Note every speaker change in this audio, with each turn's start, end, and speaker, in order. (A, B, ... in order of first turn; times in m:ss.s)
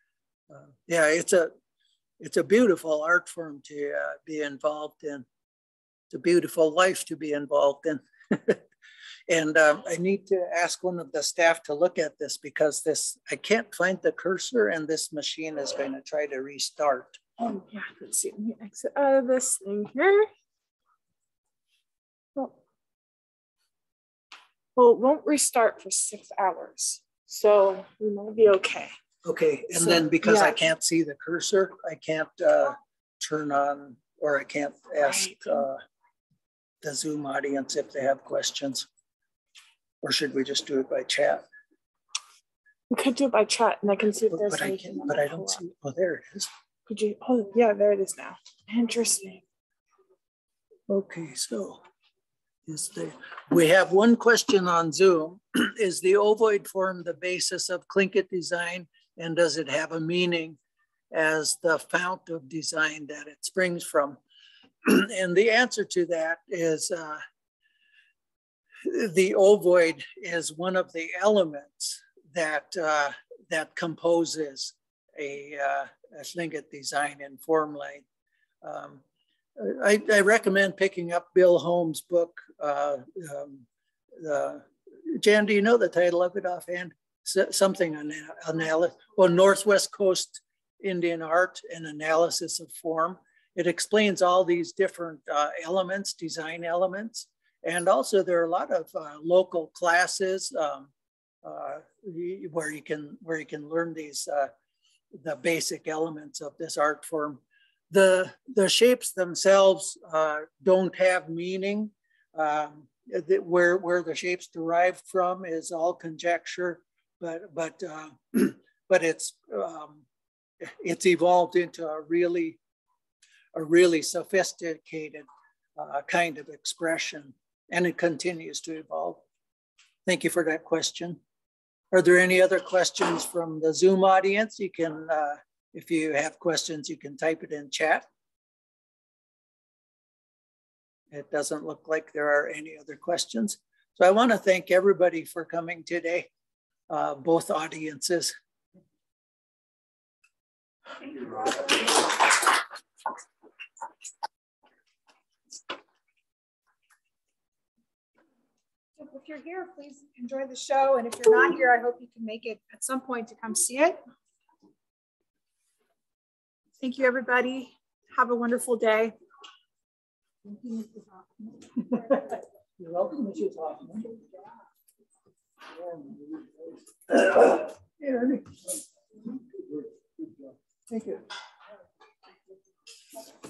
0:00.5-0:01.5 A
0:02.2-0:05.2 A
0:06.1-0:08.6 A
0:09.3-0:17.2 A
0:17.4-0:20.3 B
0:24.8-0:28.9 B
0:29.2-0:35.8 A
0:29.8-0:30.6 B
0:35.0-0:35.5 B
0:36.8-0:38.9 A
0:40.0-0:41.4 A
0:42.9-0:45.6 B
0:44.3-0:46.5 A
0:46.9-0:49.4 B
0:50.9-0:51.8 A
0:52.7-1:00.6 A
1:01.1-1:04.2 A
1:04.8-1:07.2 A
1:08.8-1:18.0 A
1:18.6-1:19.0 A
1:19.6-1:23.6 A
1:24.2-1:40.9 A
1:41.4-1:44.5 A
1:45.1-2:00.0 A
2:00.6-2:02.6 A
2:03.5-2:09.2 A
2:10.0-2:11.2 A
2:11.9-2:18.0 A
2:21.1-2:26.3 A
2:26.9-2:28.3 A
2:39.0-2:44.0 C
2:46.8-2:49.1 C
2:52.8-2:54.2 A
2:55.8-2:56.3 A
2:57.1-2:58.5 A
3:00.9-3:01.2 A